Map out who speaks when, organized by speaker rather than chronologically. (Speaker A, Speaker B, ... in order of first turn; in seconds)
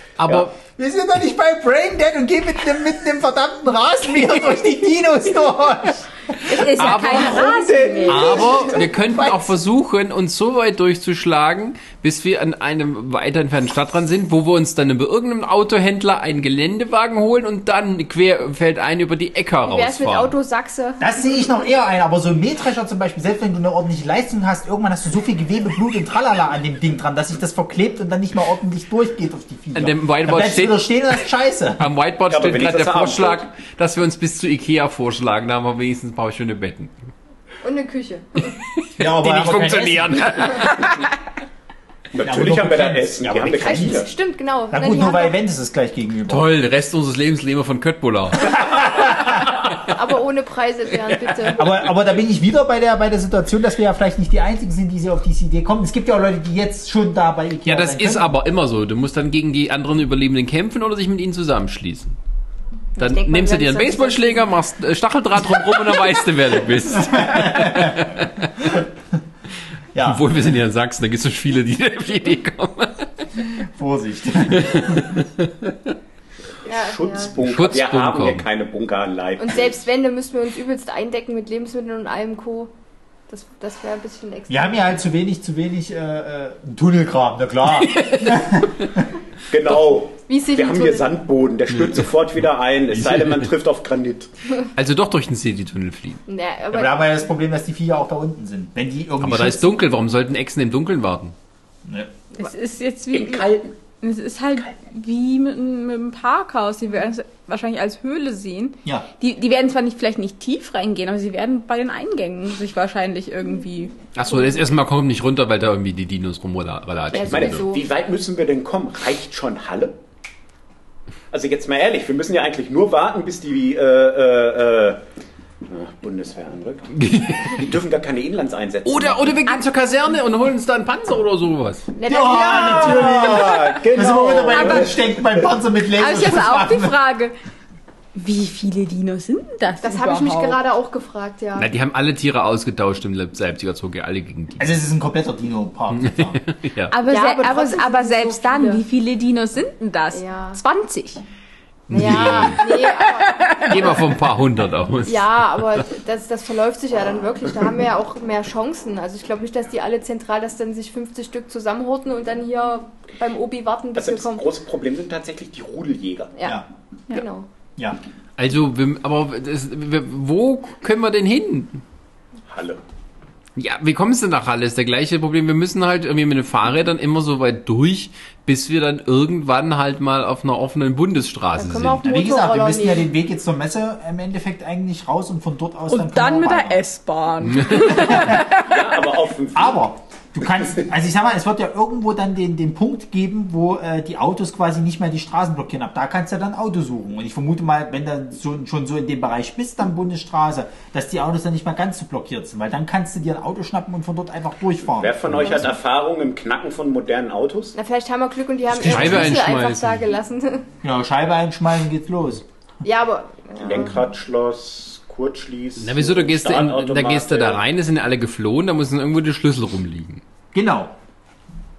Speaker A: 0.2-0.5, 6.8-7.5, 8.1-20.3, 29.8-30.9, 31.8-37.1, 38.8-41.0, 46.3-49.7, 57.6-62.2, 63.0-68.5, 70.0-73.1, 74.5-75.9, 77.4-78.5, 87.9-88.5, 93.0-93.5, 94.8-96.2, 99.2-101.3, 114.2-117.7, 127.0-127.6, 128.8-131.9, 141.6-144.7, 146.0-146.9, 151.9-152.6, 153.7-155.4, 168.4-171.8, 173.6-182.1, 187.4-187.9, 208.8-210.1, 215.8-220.2
Speaker B: 0.8-6.7, 9.2-9.5, 21.0-31.9, 39.0-40.6, 42.2-44.1, 44.7-46.5, 48.6-49.4, 51.5-58.3, 67.0-68.1, 69.9-70.3, 73.7-75.2, 84.5-89.0, 96.7-99.8, 132.1-137.0, 144.6-146.4, 182.0-186.8, 187.9-188.4, 189.6-205.5, 208.8-209.4, 210.8-212.4, 220.5-220.9
Speaker C: 6.4-8.6, 102.3-114.0, 134.5-134.9, 135.9-137.3, 138.2-140.6, 146.9-151.2, 152.3-153.9, 185.9-188.9
Speaker D: 7.0-8.8, 32.3-33.5, 42.1-44.1, 76.7-79.8, 89.5-94.3, 103.1-103.7, 117.1-120.0, 121.3-125.0, 125.7-129.4, 132.3-134.9, 163.9-166.3, 172.5-172.8, 188.2-189.8, 205.0-207.8, 213.6-217.6
Speaker E: 19.6-21.1, 37.6-38.5, 43.6-45.4, 49.8-51.7, 63.0-64.5, 76.7-77.3, 79.4-82.7, 83.3-84.8, 90.3-91.1, 96.3-97.1, 117.1-117.8, 132.0-133.5, 139.8-141.7, 147.1-148.8, 150.1-150.6, 151.9-154.0, 155.1-164.4, 166.3-166.6, 167.1-167.5, 181.6-183.1, 207.8-210.7, 212.8-214.0